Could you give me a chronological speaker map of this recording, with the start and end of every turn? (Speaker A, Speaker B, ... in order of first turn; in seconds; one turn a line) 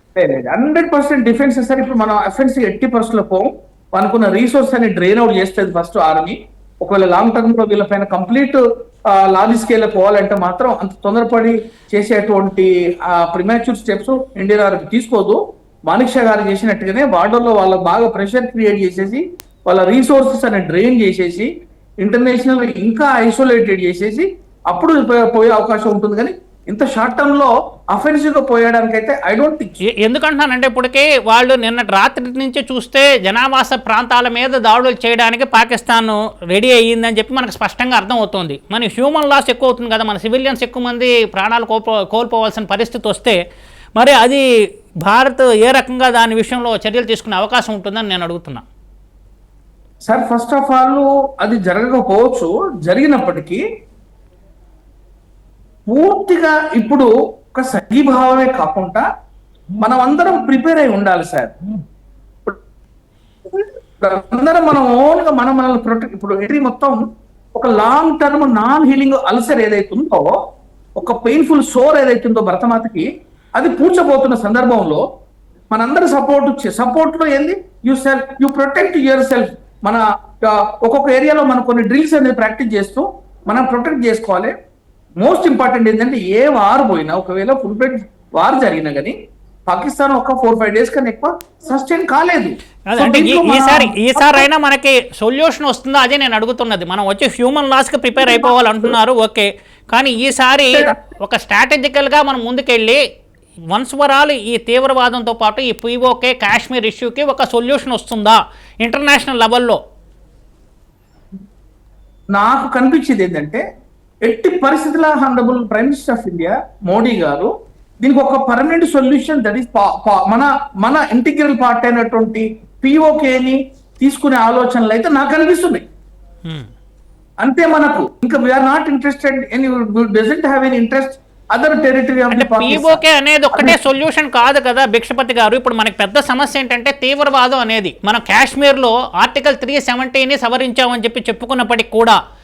Speaker A: 0.1-21.5
Speaker A: 22.0-29.8
Speaker B: 29.9-43.4
Speaker B: 44.0-44.4
Speaker B: 45.0-48.6
Speaker A: 50.1-53.6
Speaker A: 55.9-59.0
Speaker A: 59.8-61.5
Speaker A: 63.5-67.0
Speaker A: 67.5-70.3
Speaker A: 71.0-75.0
Speaker A: 75.7-84.5
Speaker A: 85.2-89.1
Speaker A: 89.7-94.5
Speaker B: 92.9-103.0
Speaker A: 98.2-98.9
Speaker A: 100.7-101.0
Speaker B: 103.7-109.8
Speaker A: 112.3-113.6
Speaker A: 114.2-117.5
Speaker A: 118.0-125.8
Speaker A: 127.4-133.0
Speaker B: 132.3-142.2
Speaker A: 133.5-133.8